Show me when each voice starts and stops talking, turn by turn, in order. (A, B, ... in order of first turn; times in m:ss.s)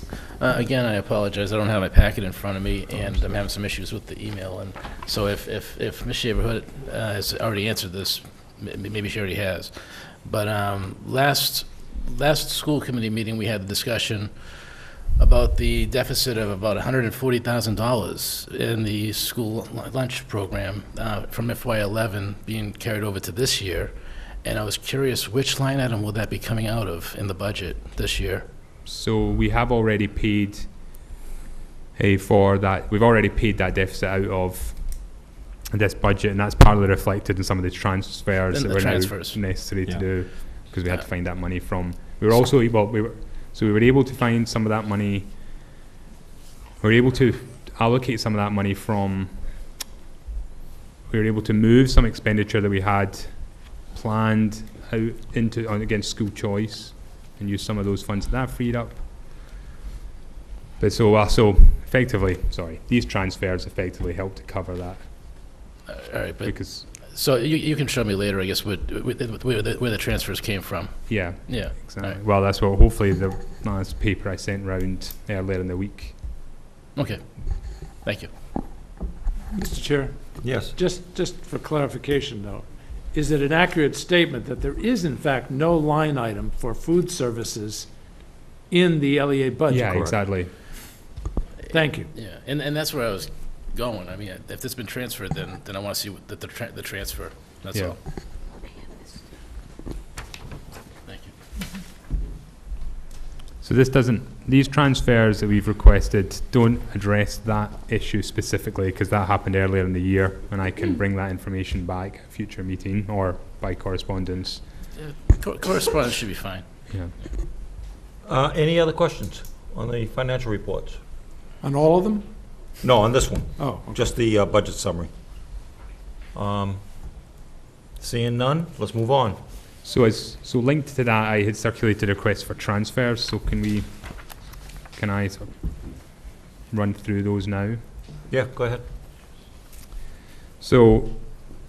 0:00.4-0:28.4 A
0:28.9-0:30.9 B
0:32.0-0:45.4 B
0:38.5-0:39.5 A
0:46.8-0:49.5 B
0:51.1-0:59.1 B
1:00.8-1:05.1 B
1:05.9-1:12.2 A
1:06.4-1:06.9 B
1:11.1-1:16.2 B
1:17.0-1:17.2 A
1:18.0-1:18.3 A
1:19.5-1:27.9 C
1:20.4-1:20.7 D
1:28.7-1:30.2 C
1:29.7-1:30.5 B
1:31.7-1:32.1 C
1:32.1-1:38.0 A
1:41.1-1:41.3 A
1:43.6-1:54.6 B
1:55.0-1:56.7 A
1:58.2-2:01.0 D
2:01.6-2:02.3 C
2:02.8-2:05.1 D
2:03.6-2:04.0 C
2:06.3-2:06.8 D
2:08.0-2:09.4 D
2:09.8-2:14.3 B
2:15.0-2:15.5 B
2:16.7-2:17.8 B
2:18.3-2:18.8 D
2:20.6-2:21.5 B